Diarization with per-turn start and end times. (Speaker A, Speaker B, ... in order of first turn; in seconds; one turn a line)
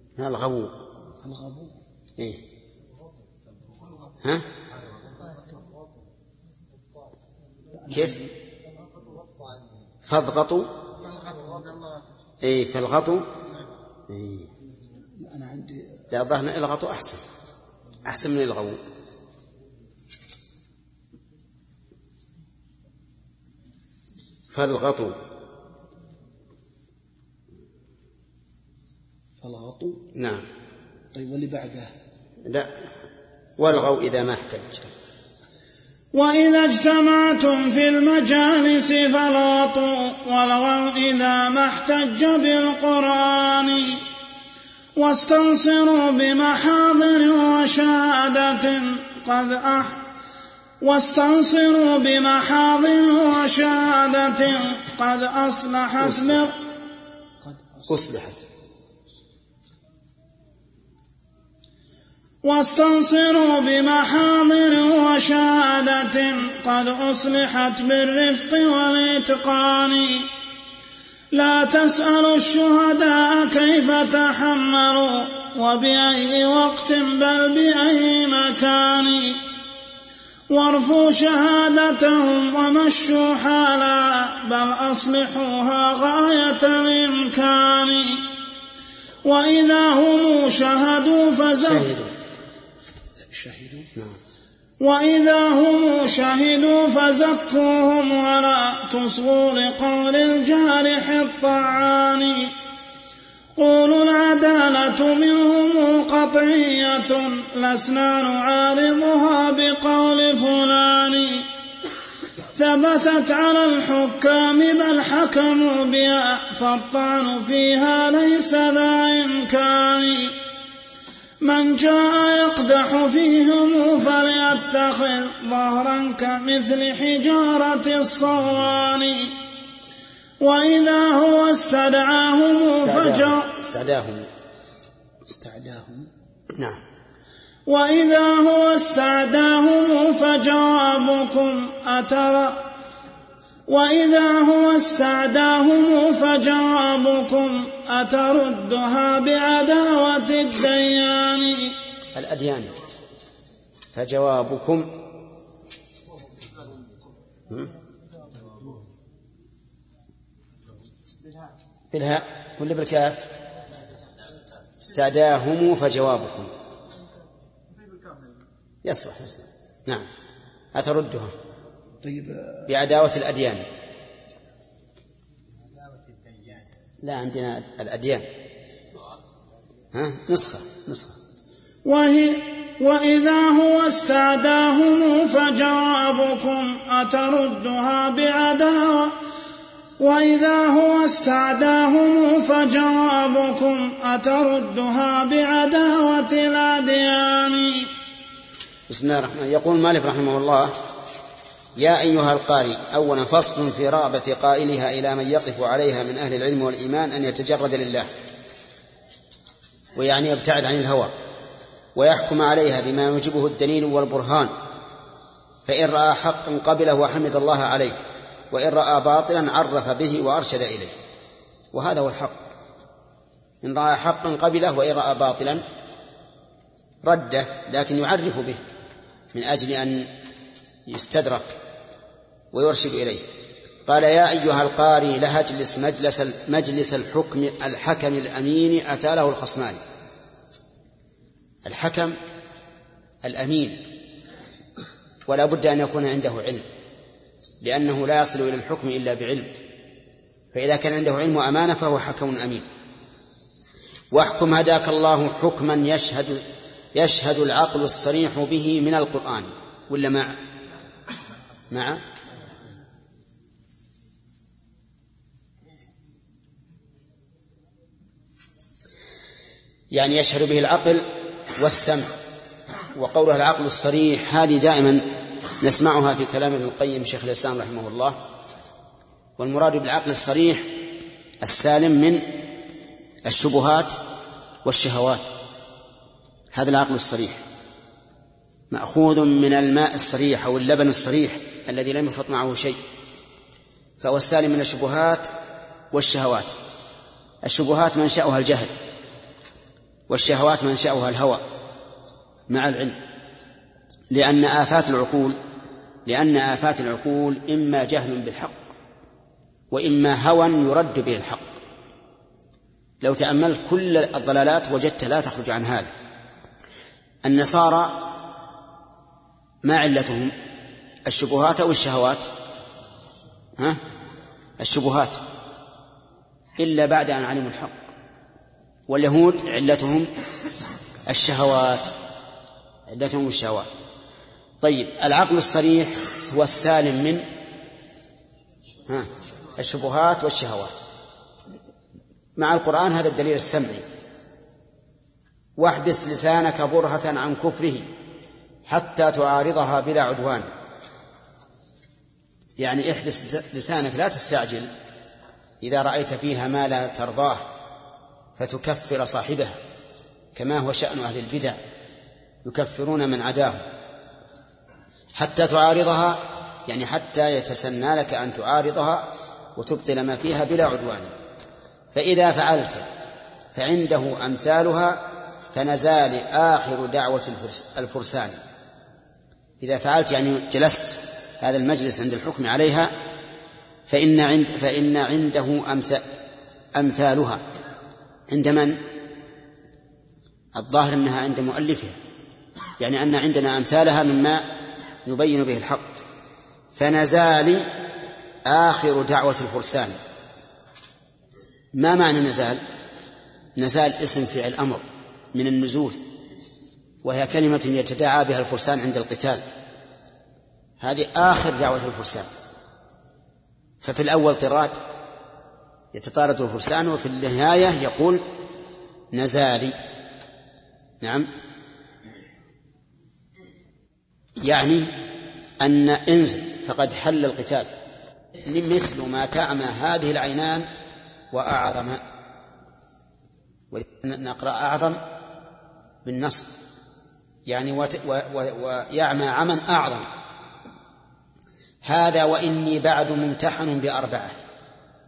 Speaker A: 0.2-0.7
Speaker B: 1.2-1.8
Speaker B: 7.8-8.3
Speaker A: 7.9-8.2
Speaker A: 10.1-10.7
Speaker A: 12.4-13.2
Speaker A: 14.1-14.5
Speaker B: 15.2-16.0
Speaker A: 16.1-17.2
Speaker A: 18.0-18.8
Speaker A: 24.5-25.1
Speaker B: 29.4-30.0
Speaker A: 30.1-30.4
Speaker B: 31.1-31.9
Speaker A: 33.6-34.9
Speaker C: 36.1-44.0
Speaker C: 45.0-50.0
Speaker C: 50.8-56.5
Speaker A: 56.0-56.5
Speaker B: 57.4-57.9
Speaker A: 57.9-58.4
Speaker C: 62.4-70.3
Speaker C: 71.3-79.4
Speaker C: 80.5-88.3
Speaker C: 89.2-91.8
Speaker A: 91.6-92.1
Speaker B: 93.2-93.9
Speaker C: 94.8-102.5
Speaker C: 103.5-111.5
Speaker C: 112.5-120.3
Speaker C: 121.4-129.3
Speaker C: 130.4-133.5
Speaker A: 132.8-134.3
Speaker B: 135.3-136.1
Speaker C: 137.7-142.7
Speaker C: 143.7-151.7
Speaker A: 152.1-152.7
Speaker A: 153.9-154.9
Speaker A: 161.9-163.3
Speaker A: 164.8-166.5
Speaker A: 168.8-170.1
Speaker A: 170.7-171.3
Speaker B: 172.0-172.6
Speaker A: 172.7-173.6
Speaker A: 177.0-178.2
Speaker A: 179.9-181.2
Speaker C: 181.8-189.2
Speaker C: 190.0-197.9
Speaker A: 198.9-200.7
Speaker A: 201.8-208.1
Speaker A: 209.9-211.1
Speaker A: 211.9-214.5
Speaker A: 215.7-217.9
Speaker A: 218.5-220.9
Speaker A: 221.7-222.4
Speaker A: 223.6-225.6
Speaker A: 227.0-228.6
Speaker A: 229.3-230.1
Speaker A: 230.9-231.6
Speaker A: 232.5-233.3
Speaker A: 233.8-239.8
Speaker A: 241.7-242.1
Speaker A: 243.2-243.8
Speaker A: 245.3-246.6
Speaker A: 247.6-249.5
Speaker A: 250.5-252.7
Speaker A: 254.1-256.4
Speaker A: 256.9-260.4
Speaker A: 261.7-262.0
Speaker A: 269.9-271.1
Speaker A: 271.6-272.1
Speaker A: 272.9-275.1
Speaker A: 275.6-278.2
Speaker A: 279.4-280.7
Speaker A: 281.4-282.2
Speaker A: 283.2-284.0
Speaker A: 284.6-285.3
Speaker A: 286.5-287.4
Speaker A: 288.7-292.8
Speaker A: 294.0-295.3
Speaker A: 295.9-296.5
Speaker A: 297.4-298.7
Speaker A: 300.1-301.4
Speaker A: 302.5-302.9
Speaker A: 304.1-305.4
Speaker A: 306.1-308.6
Speaker A: 309.7-311.5
Speaker A: 313.0-315.9
Speaker A: 317.2-318.1
Speaker A: 319.6-320.3
Speaker A: 321.1-322.3
Speaker A: 324.6-325.2
Speaker A: 326.6-327.8
Speaker A: 328.9-330.1
Speaker A: 331.1-331.9
Speaker A: 332.9-333.7
Speaker A: 334.6-337.2
Speaker A: 338.9-340.8
Speaker A: 342.4-343.9
Speaker A: 345.6-347.9
Speaker A: 348.7-350.5
Speaker A: 352.6-354.7
Speaker A: 355.6-357.4
Speaker A: 358.4-359.6
Speaker A: 360.4-361.6
Speaker A: 362.4-363.6
Speaker A: 365.1-371.1
Speaker A: 371.9-372.9
Speaker A: 373.5-375.0
Speaker A: 375.5-378.4
Speaker A: 379.6-382.9
Speaker A: 383.9-386.0
Speaker A: 386.7-387.4
Speaker A: 388.3-388.8
Speaker A: 390.6-392.0
Speaker A: 392.8-394.4
Speaker A: 395.0-396.0
Speaker A: 396.8-397.6
Speaker A: 398.4-399.9
Speaker A: 401.7-402.6
Speaker A: 403.6-406.0
Speaker A: 407.0-409.4
Speaker A: 410.8-412.3
Speaker A: 413.8-414.8
Speaker A: 415.9-418.2
Speaker A: 419.1-419.7
Speaker A: 421.0-421.3
Speaker A: 424.4-424.9
Speaker A: 425.6-427.7
Speaker A: 428.4-430.7
Speaker A: 431.3-432.0
Speaker A: 433.7-435.0
Speaker A: 436.0-436.5
Speaker A: 437.5-440.1
Speaker A: 441.9-444.4